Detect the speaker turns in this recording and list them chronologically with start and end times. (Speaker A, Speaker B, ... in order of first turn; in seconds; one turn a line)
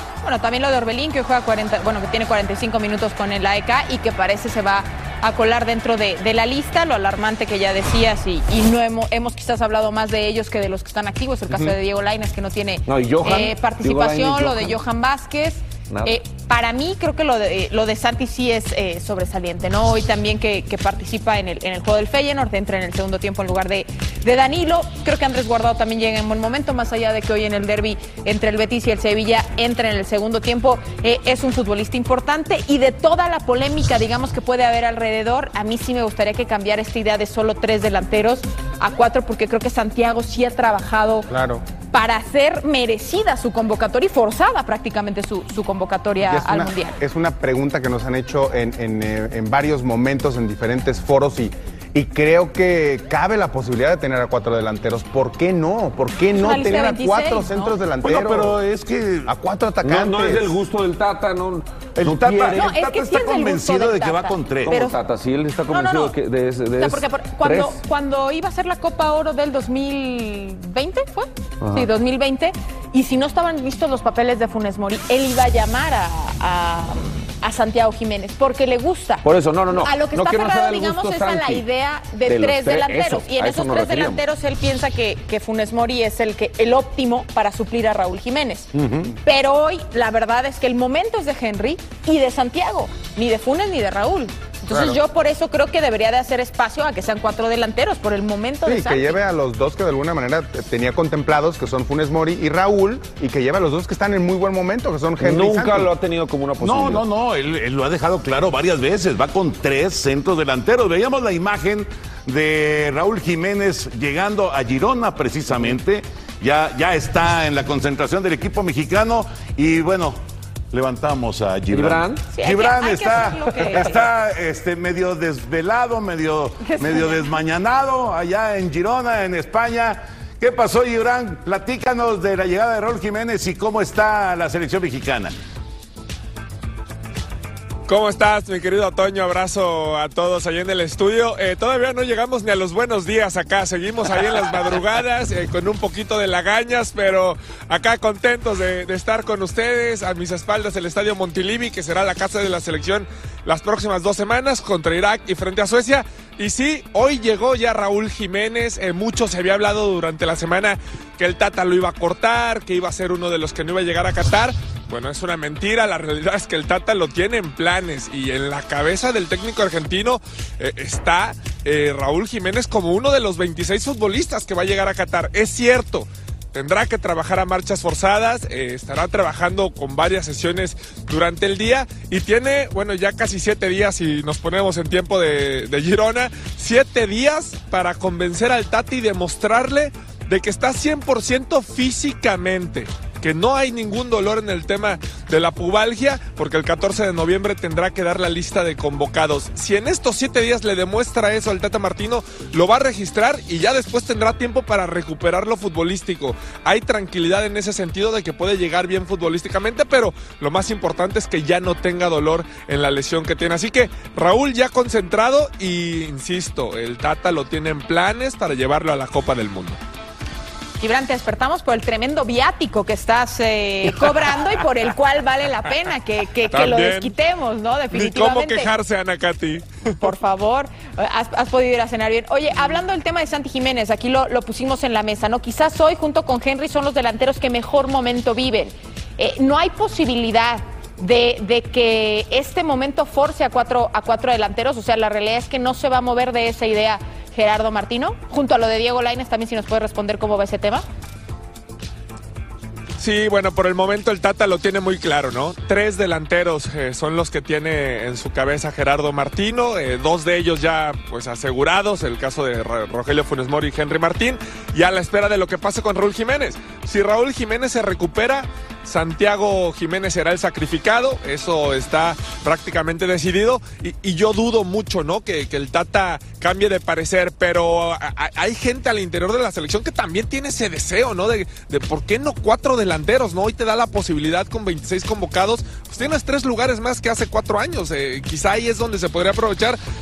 Speaker A: 0.2-41.3
Speaker B: 12.9-14.8
Speaker B: 15.9-16.2
Speaker C: 41.3-41.6
Speaker A: 41.9-47.0
Speaker C: 46.2-58.6
Speaker A: 56.3-57.8
Speaker D: 58.0-59.3
Speaker C: 59.3-60.6
Speaker B: 59.8-62.8
Speaker D: 62.0-64.8
Speaker A: 62.5-65.0
Speaker B: 64.7-67.8
Speaker A: 65.7-66.1
Speaker A: 66.8-88.7
Speaker B: 71.6-71.9
Speaker B: 79.2-81.7
Speaker B: 82.2-84.2
Speaker B: 88.7-89.2
Speaker A: 89.2-99.2
Speaker C: 94.7-95.0
Speaker C: 98.6-105.9
Speaker B: 105.2-107.1
Speaker D: 106.6-120.2
Speaker D: 120.7-135.3
Speaker B: 121.7-122.3
Speaker A: 122.3-124.1
Speaker A: 126.6-127.4
Speaker E: 137.9-219.8
Speaker A: 220.8-228.7
Speaker E: 226.5-227.2
Speaker E: 227.9-230.1
Speaker A: 230.0-250.8
Speaker E: 253.0-289.8